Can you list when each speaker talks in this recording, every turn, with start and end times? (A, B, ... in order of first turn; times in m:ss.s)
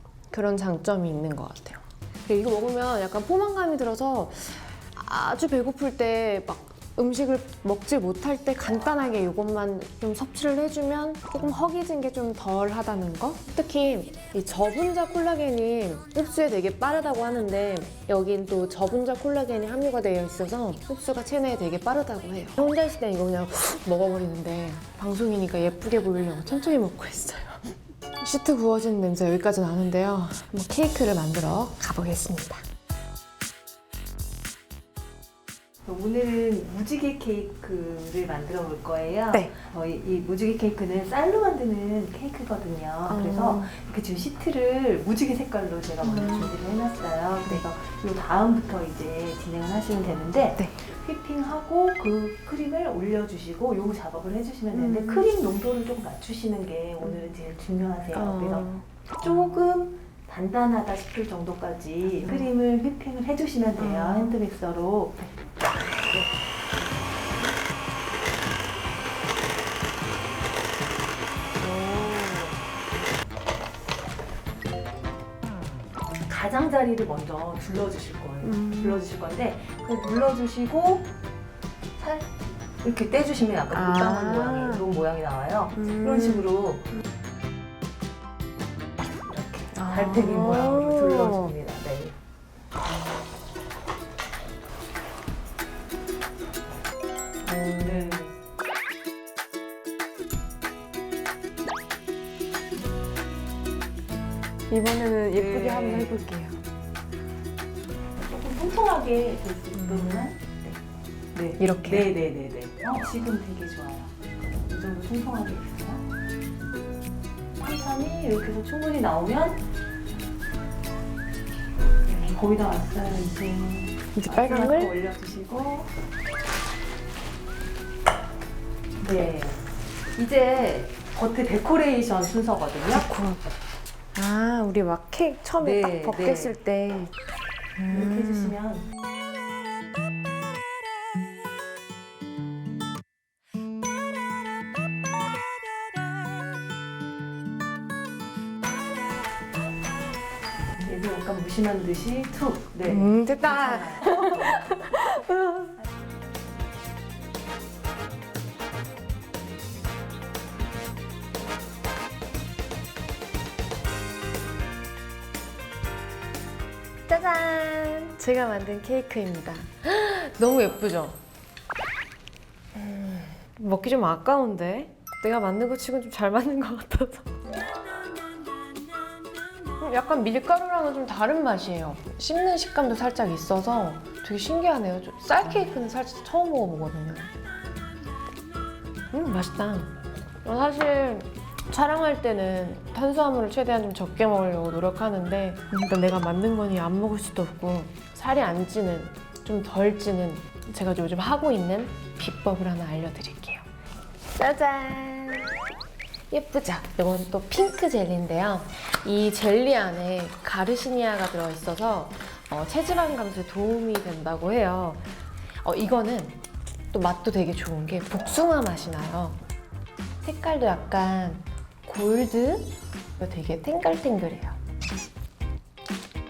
0:00.3-0:27.6 A
0:28.2-0:32.6 A
0:35.9-0:58.7 B
0:43.1-0:43.7 A
0:46.0-0:46.5 A
0:54.7-0:55.3 A
0:58.1-0:58.9 A
0:59.2-1:05.3 B
1:02.2-1:02.5 A
1:03.8-1:04.4 A
1:16.3-1:21.1 B
1:18.4-1:19.1 A
1:22.0-1:22.3 B
1:22.8-1:26.9 B
1:23.7-1:24.8 A
1:25.8-1:26.5 A
1:29.2-1:32.2 B
1:29.7-1:31.5 A
1:37.4-1:38.2 A
1:37.8-1:38.3 B
1:44.7-1:46.6 A
1:45.3-1:46.2 B
1:48.3-1:50.8 B
1:49.7-1:50.3 A
1:51.3-1:54.1 B
1:51.6-1:52.1 A
1:54.7-1:56.0 B
1:57.6-1:59.6 B
2:02.1-2:05.9 B
2:04.2-2:04.9 A
2:09.0-2:09.6 B
2:10.2-2:13.0 B
2:12.9-2:13.4 A
2:14.2-2:17.1 A
2:15.6-2:16.6 B
2:17.8-2:18.6 A
2:17.9-2:18.9 B
2:30.8-2:34.6 B
2:32.8-2:35.8 A
2:47.1-2:51.2 A
2:52.8-2:57.4 A
2:59.8-3:07.3 A
3:09.1-3:23.7 A
3:24.3-3:25.6 A
3:26.3-3:35.0 A
3:35.6-3:39.4 A
3:40.2-3:44.6 A